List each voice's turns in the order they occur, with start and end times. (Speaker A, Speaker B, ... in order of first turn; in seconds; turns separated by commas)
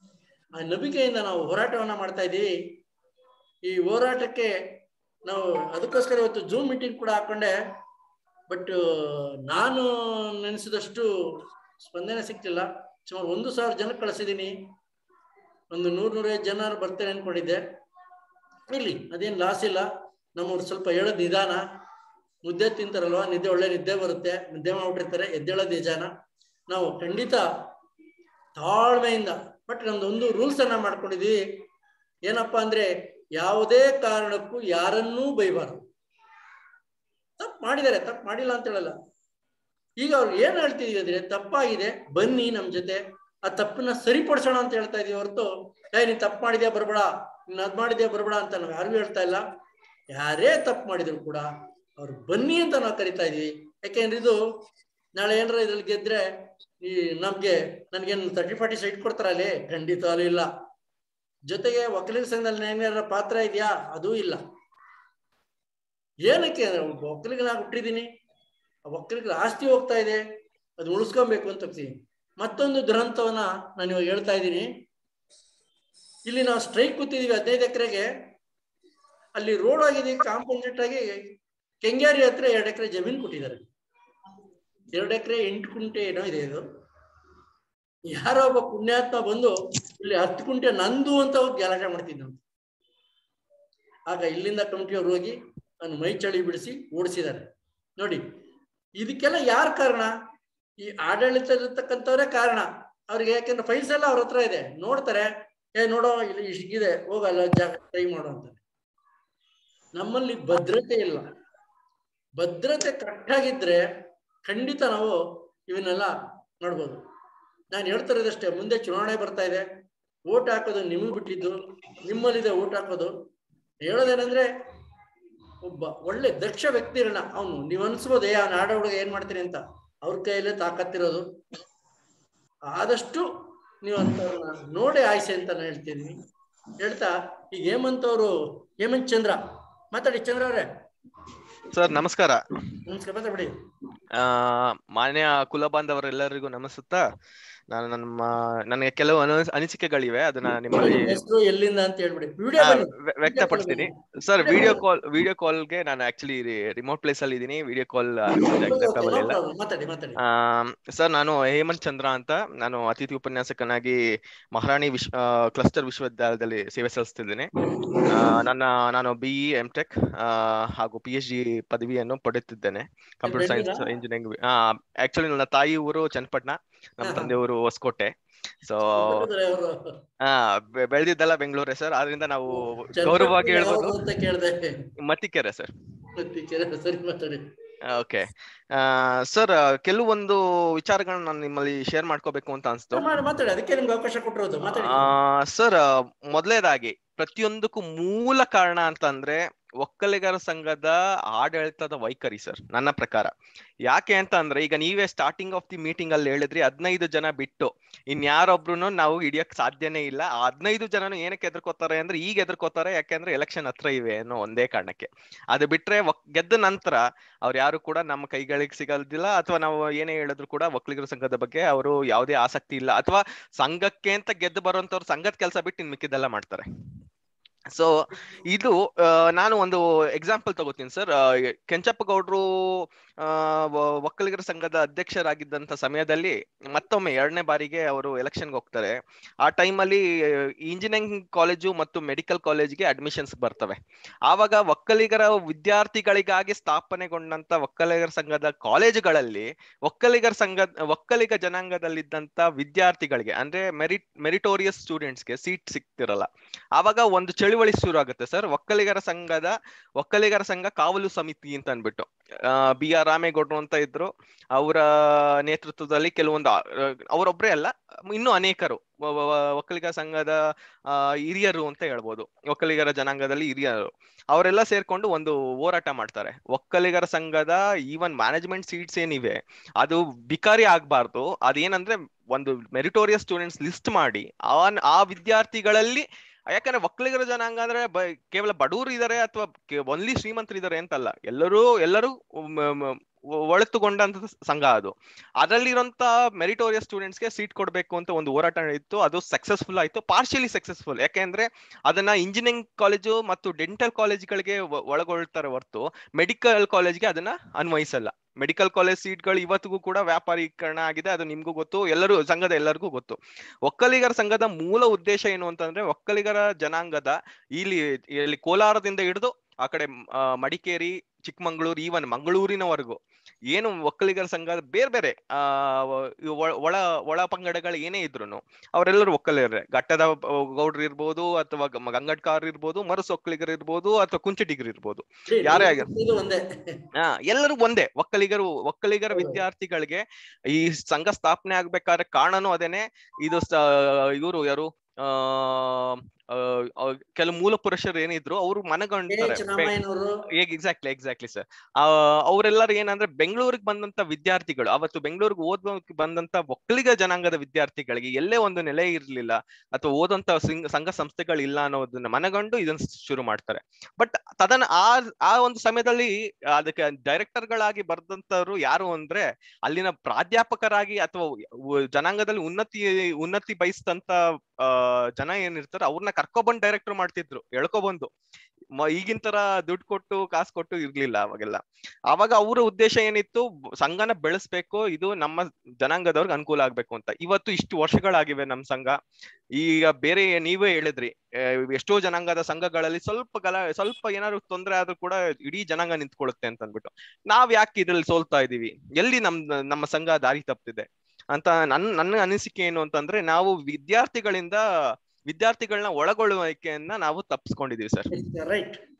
Speaker A: 0.6-2.5, Speaker A: 3.7-4.5, Speaker A: 5.3-7.5, Speaker A: 8.5-11.1, Speaker A: 11.8-14.5, Speaker A: 15.7-17.6, Speaker A: 18.7-21.6, Speaker A: 22.4-26.1, Speaker A: 26.7-27.4, Speaker A: 28.6-31.4, Speaker A: 32.3-35.8, Speaker A: 37.4-38.9, Speaker A: 40.0-49.4, Speaker A: 50.1-51.5, Speaker A: 52.0-54.4, Speaker A: 55.2-56.2, Speaker A: 56.8-60.5, Speaker A: 61.5-64.4, Speaker A: 66.2-68.1, Speaker A: 68.9-70.2, Speaker A: 70.8-74.7, Speaker A: 76.3-78.1, Speaker A: 79.4-81.2, Speaker A: 81.8-83.6, Speaker A: 84.9-86.6, Speaker A: 88.1-92.4, Speaker A: 94.1-97.5, Speaker A: 99.0-100.1, Speaker A: 100.8-108.6, Speaker A: 110.0-111.3, Speaker A: 112.4-113.8, Speaker A: 114.5-115.2, Speaker A: 115.7-117.0, Speaker A: 117.7-119.7, Speaker A: 120.3-123.1, Speaker A: 123.8-124.5, Speaker A: 125.6-131.2, Speaker A: 132.7-133.2, Speaker A: 133.8-136.2, Speaker A: 136.8-139.4, Speaker A: 139.9-140.7, Speaker B: 141.7-142.4, Speaker A: 142.9-143.5, Speaker B: 144.2-147.0, Speaker B: 147.7-151.2, Speaker A: 150.7-153.9, Speaker B: 152.6-159.4, Speaker A: 154.4-154.8, Speaker A: 158.3-160.2, Speaker B: 160.2-164.0, Speaker B: 164.5-167.5, Speaker A: 167.6-168.1, Speaker B: 168.1-178.1, Speaker A: 173.2-173.8, Speaker A: 177.0-177.3, Speaker B: 178.6-179.2, Speaker A: 179.0-180.0, Speaker B: 180.2-184.0, Speaker A: 182.9-184.8, Speaker B: 185.0-185.7, Speaker A: 186.2-187.4, Speaker B: 187.9-193.1, Speaker A: 192.9-195.1, Speaker B: 194.7-203.3, Speaker B: 203.9-226.6, Speaker B: 228.5-240.0, Speaker B: 240.7-270.4, Speaker B: 270.9-323.0, Speaker B: 323.5-335.9, Speaker A: 335.3-336.8, Speaker B: 337.0-349.7, Speaker A: 349.1-350.2, Speaker B: 350.3-371.3, Speaker B: 371.9-378.1, Speaker B: 378.8-389.0, Speaker B: 389.6-404.6, Speaker B: 405.3-408.1, Speaker A: 408.1-408.8